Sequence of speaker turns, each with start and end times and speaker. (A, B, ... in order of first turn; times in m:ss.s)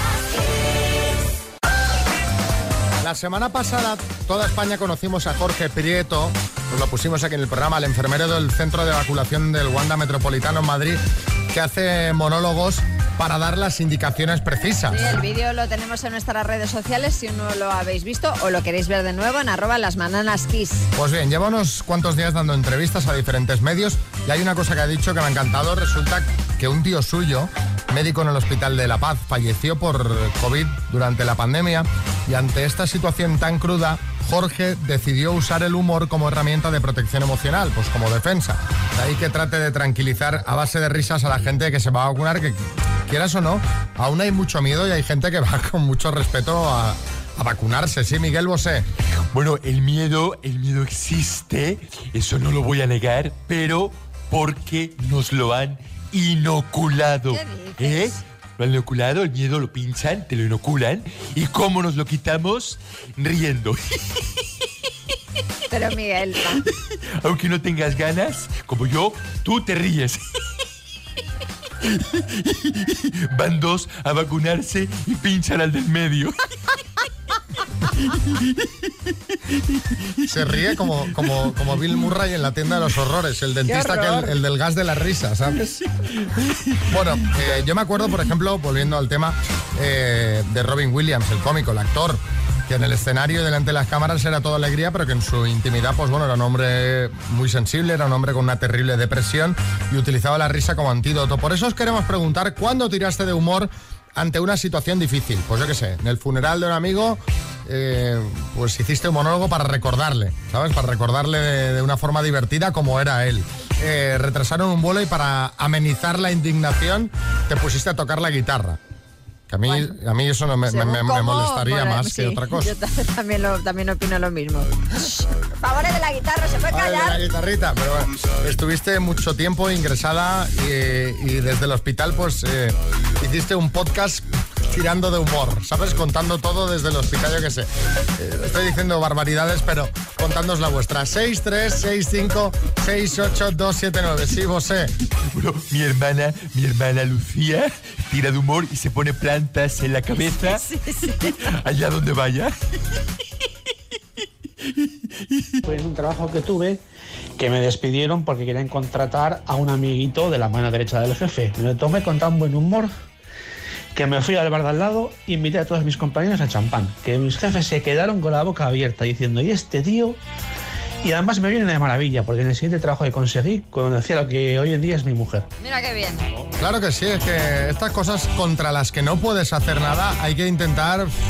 0:03.0-0:15.2 A
0:14.9-0:20.9 B
0:20.9-0:48.9 A
0:49.3-1:03.8 C
0:57.3-0:58.2 B
1:05.7-1:06.6 B
1:07.2-1:10.2 C
1:11.8-1:16.4 C
1:20.3-1:25.8 A
1:23.7-1:24.3 B
1:26.9-1:58.8 A
1:59.5-2:02.7 A
2:00.7-2:07.2 B
2:06.7-2:24.9 A
2:25.3-2:30.6 C
2:30.4-2:31.3 B
2:31.3-2:32.6 C
2:34.8-2:35.6 C
2:35.6-2:36.8 D
2:37.4-2:42.9 D
2:43.9-2:50.2 D
2:51.0-2:55.5 D
2:55.6-2:56.3 B
2:56.6-3:01.1 A